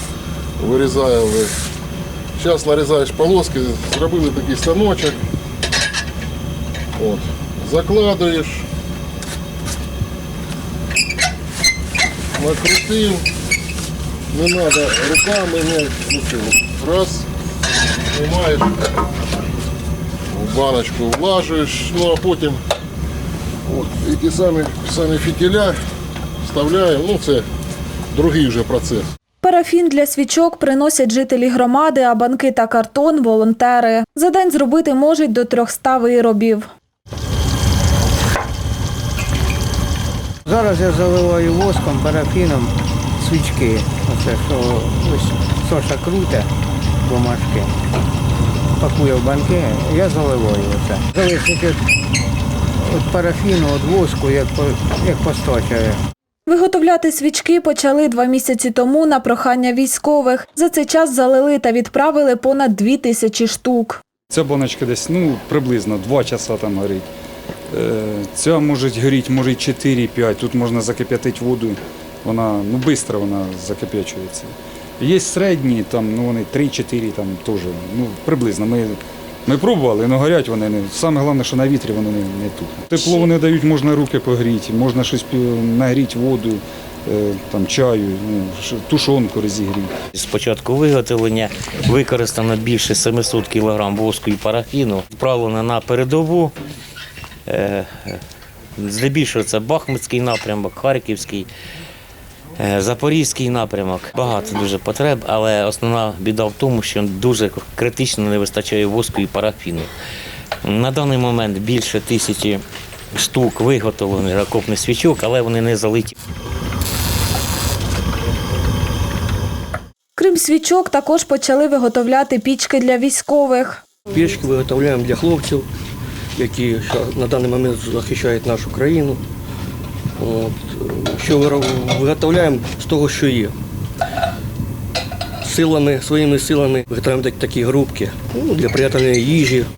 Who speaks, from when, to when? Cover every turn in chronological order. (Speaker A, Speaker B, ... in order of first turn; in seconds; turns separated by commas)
Speaker A: 0.6-1.5, Speaker A: 2.4-5.2, Speaker A: 7.0-8.7, Speaker A: 12.4-13.2, Speaker A: 14.3-17.3, Speaker A: 18.1-18.8, Speaker A: 20.3-22.6, Speaker A: 23.7-25.8, Speaker A: 26.4-27.4, Speaker A: 28.1-29.1, Speaker B: 29.4-36.7, Speaker C: 40.5-46.5, Speaker C: 47.0-47.7, Speaker C: 48.8-51.8, Speaker C: 52.8-56.0, Speaker B: 56.5-64.0, Speaker D: 64.3-67.1, Speaker D: 67.7-89.9, Speaker E: 90.1-96.5, Speaker E: 97.5-98.2, Speaker E: 98.8-101.5, Speaker E: 102.6-109.9, Speaker E: 110.6-112.6, Speaker E: 113.2-116.1, Speaker B: 120.2-123.8, Speaker F: 124.1-125.7, Speaker F: 126.4-129.2, Speaker F: 130.2-133.5, Speaker F: 135.4-139.7